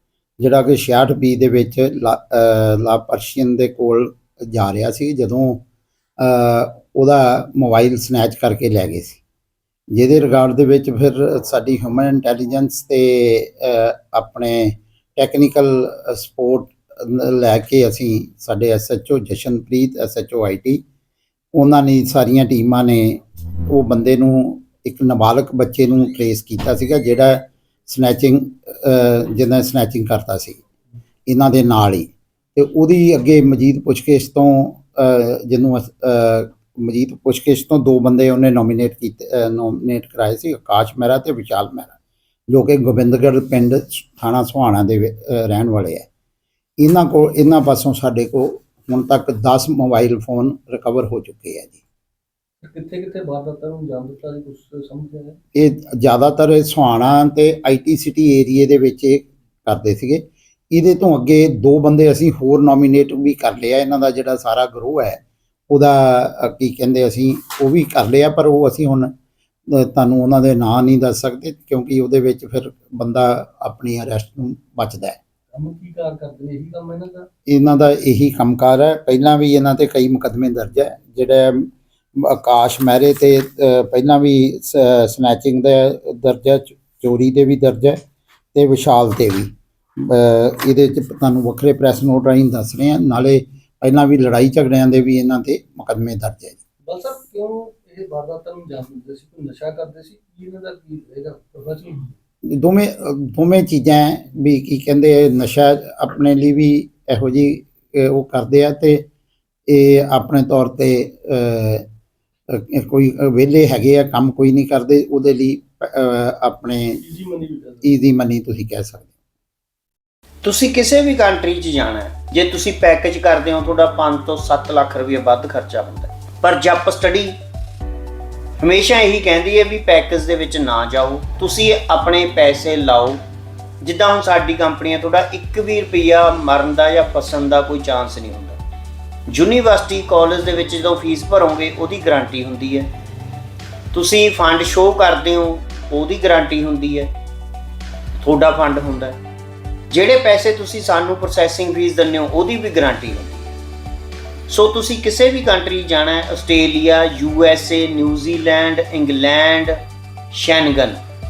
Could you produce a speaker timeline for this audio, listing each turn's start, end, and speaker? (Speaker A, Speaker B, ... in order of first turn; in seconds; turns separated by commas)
Speaker A: 0.4-5.6, Speaker A: 6.2-9.2, Speaker A: 9.9-20.8, Speaker A: 21.5-30.6, Speaker A: 31.3-41.9, Speaker A: 42.5-46.1, Speaker A: 46.8-51.8, Speaker B: 52.6-55.4, Speaker A: 55.5-69.1, Speaker A: 69.7-75.2, Speaker B: 75.5-77.3, Speaker A: 77.5-88.0, Speaker A: 88.5-96.6, Speaker B: 96.8-102.1, Speaker A: 102.4-109.1, Speaker A: 109.7-111.9, Speaker A: 112.5-117.0, Speaker B: 117.0-117.9, Speaker A: 117.8-119.1, Speaker C: 120.4-127.3, Speaker C: 128.6-133.2, Speaker C: 133.8-138.6, Speaker C: 139.3-142.9, Speaker C: 143.9-147.1, Speaker C: 148.2-149.2, Speaker C: 149.9-153.5, Speaker C: 154.5-159.7, Speaker C: 160.3-161.0